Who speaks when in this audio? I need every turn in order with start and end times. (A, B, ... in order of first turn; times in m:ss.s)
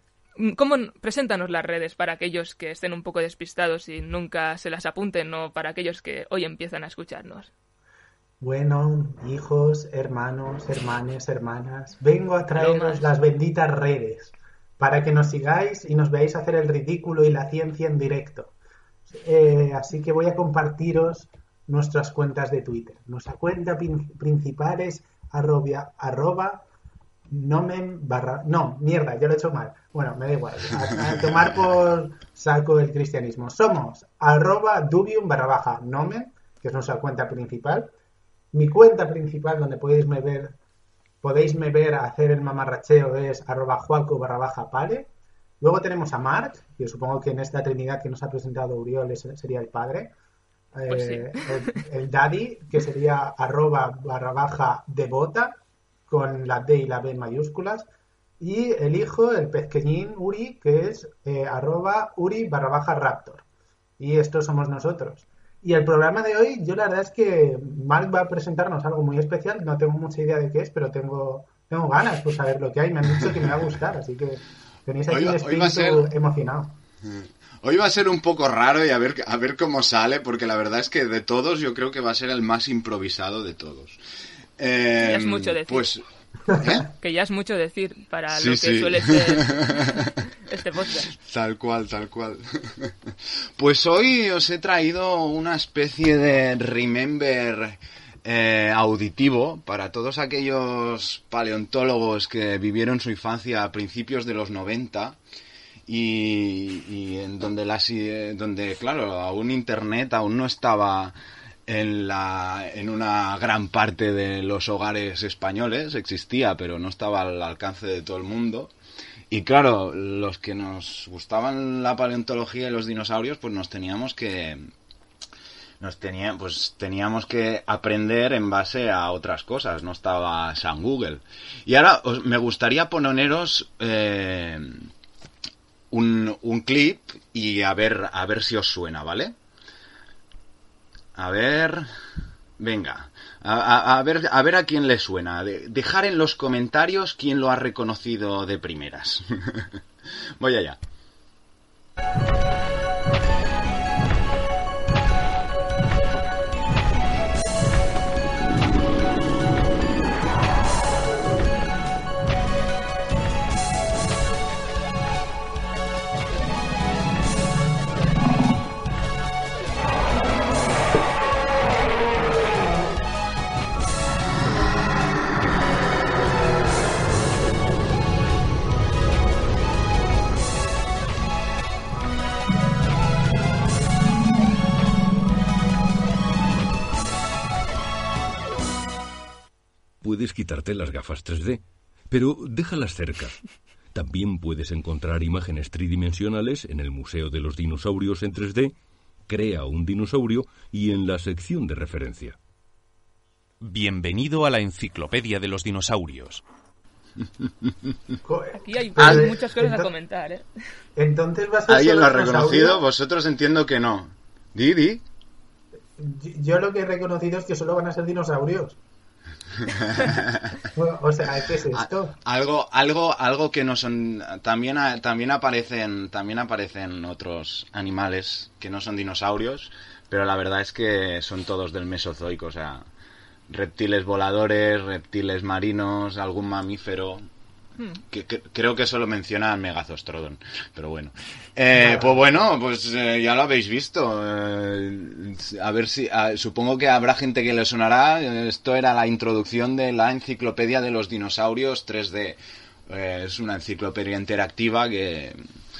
0:00.4-0:07.5 A
0:08.4-0:18.5 B
0:12.5-0:13.1 A
0:19.1-0:26.6 B
0:27.3-0:37.9 B
0:38.5-0:40.6 B
0:41.2-0:50.1 B
0:50.7-0:57.9 B
0:50.9-0:51.8 A
0:58.4-1:03.4 B
1:04.0-1:16.8 B
1:15.1-1:16.1 C
1:17.1-1:24.0 C
1:24.6-1:26.8 C
1:25.0-1:25.9 A
1:26.8-1:31.1 A
1:28.3-1:30.2 C
1:31.1-1:32.9 C
1:33.6-1:45.2 C
1:45.9-1:51.1 C
1:51.7-1:58.7 C
1:59.3-2:04.7 C
2:05.8-2:14.9 C
2:15.9-2:19.3 C
2:21.2-2:21.9 C
2:22.6-2:29.8 C
2:30.4-2:30.8 C
3:10.0-3:13.4 D
3:13.9-3:18.7 D
3:19.3-3:22.4 D
3:23.6-3:26.4 E
3:28.2-3:29.9 B
3:28.5-3:30.4 A
3:31.0-3:32.8 B
3:31.7-3:35.0 C
3:36.0-3:38.8 B
3:39.6-3:40.6 C
3:40.7-3:42.2 B
3:41.7-3:52.9 C
3:53.5-3:57.2 C
3:58.1-4:15.4 C
4:01.7-4:02.2 B